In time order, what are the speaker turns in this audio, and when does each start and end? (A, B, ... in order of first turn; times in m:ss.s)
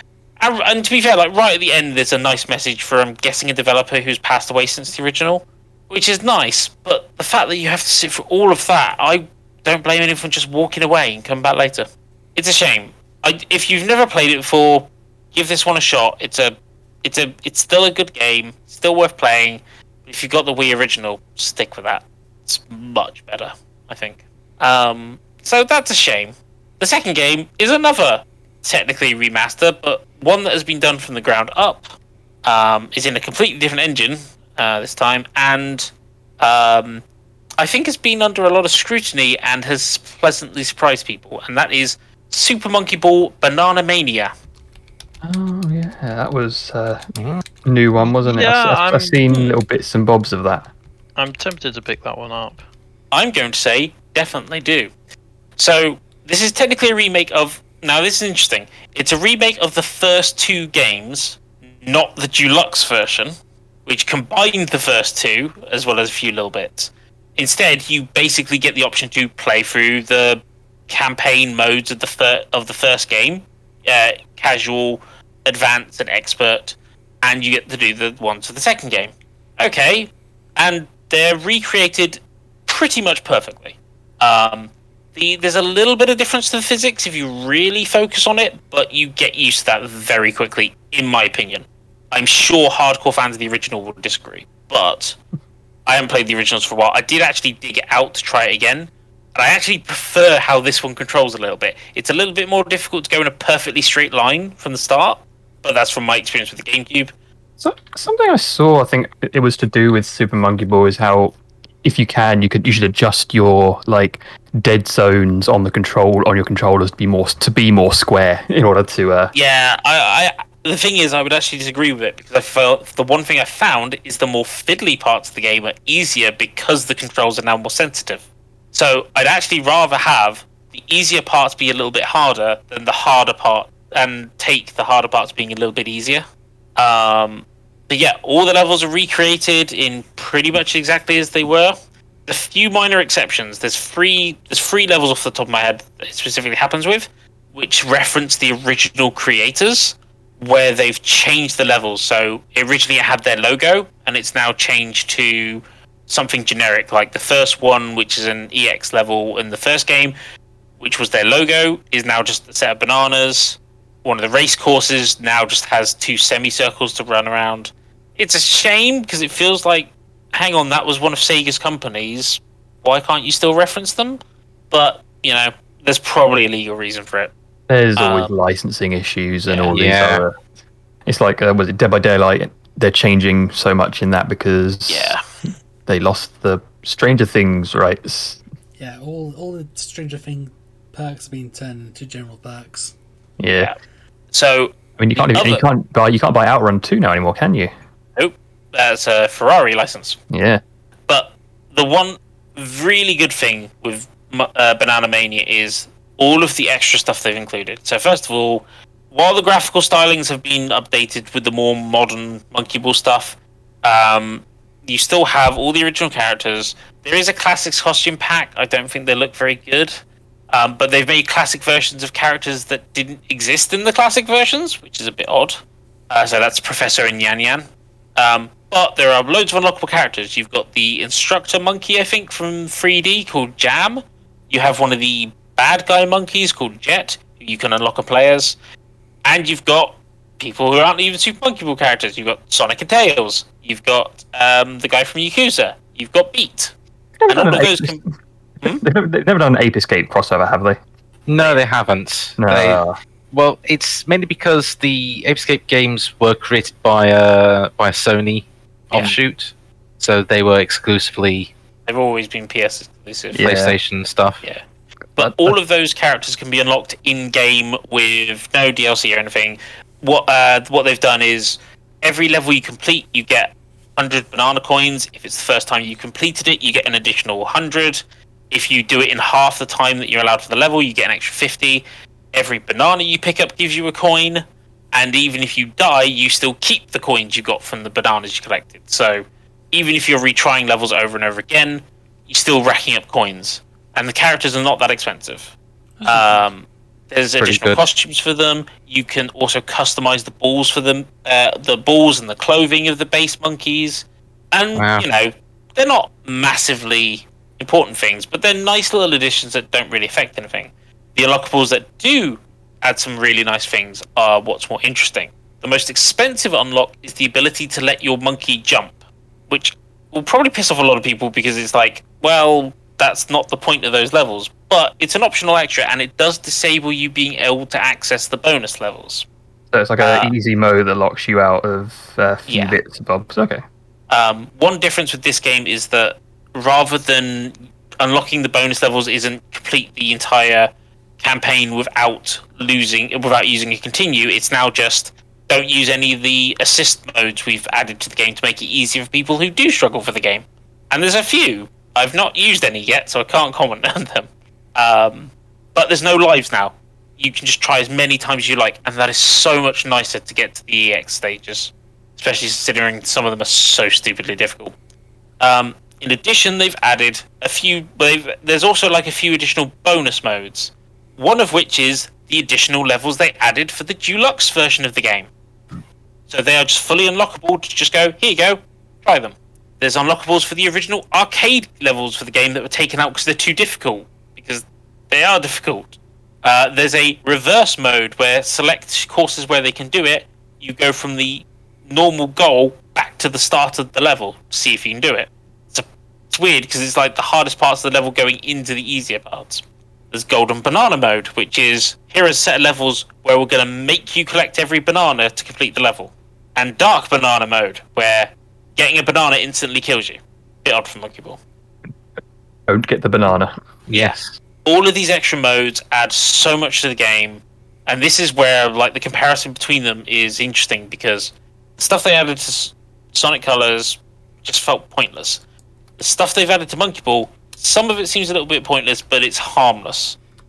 0:00.4-0:37.0 A
0:37.6-0:44.3 A
0:45.2-0:47.0 B
0:47.2-0:47.4 C
0:47.6-0:50.7 B
0:48.2-0:49.3 D
0:51.2-0:52.6 D
0:53.1-0:54.9 A
0:55.6-1:03.3 A
1:03.8-1:35.2 A
1:35.8-1:47.1 A
1:47.6-1:59.3 B
1:59.3-2:16.2 A
2:16.8-2:21.8 A
2:22.3-2:40.1 A
2:40.8-2:54.2 A
2:54.7-2:57.3 A
2:57.7-3:00.4 B
2:58.0-2:58.3 A
2:59.5-2:59.7 A
2:59.7-3:00.2 C
3:01.1-3:05.2 B
3:04.9-3:05.2 A
3:05.8-3:08.4 B
3:08.8-3:12.9 E
3:13.4-3:13.7 B
3:14.3-3:15.6 A
3:15.0-3:17.7 B
3:18.2-3:20.2 A
3:20.3-3:20.6 B
3:21.1-3:40.0 A
3:40.5-3:58.6 A
3:59.2-4:06.7 A
4:07.2-4:08.0 B
4:07.3-4:08.0 A
4:08.6-4:10.8 B
4:11.3-4:21.5 C
4:11.4-4:11.6 A
4:12.4-4:13.0 B
4:21.9-4:23.4 A
4:23.3-4:23.7 B
4:23.4-4:24.4 C
4:25.2-4:25.6 B
4:25.2-5:19.0 A
4:56.0-4:56.4 E
4:57.4-4:57.8 C
5:04.8-5:05.0 C
5:19.5-5:29.3 A
5:29.7-5:33.6 B
5:30.0-5:30.3 A
5:32.5-5:32.8 A
5:34.1-6:04.7 A
6:05.4-6:15.3 A
6:16.3-6:51.4 A
6:52.7-6:53.5 B
6:53.9-6:54.4 C
6:54.6-7:05.4 A
7:06.0-7:10.2 A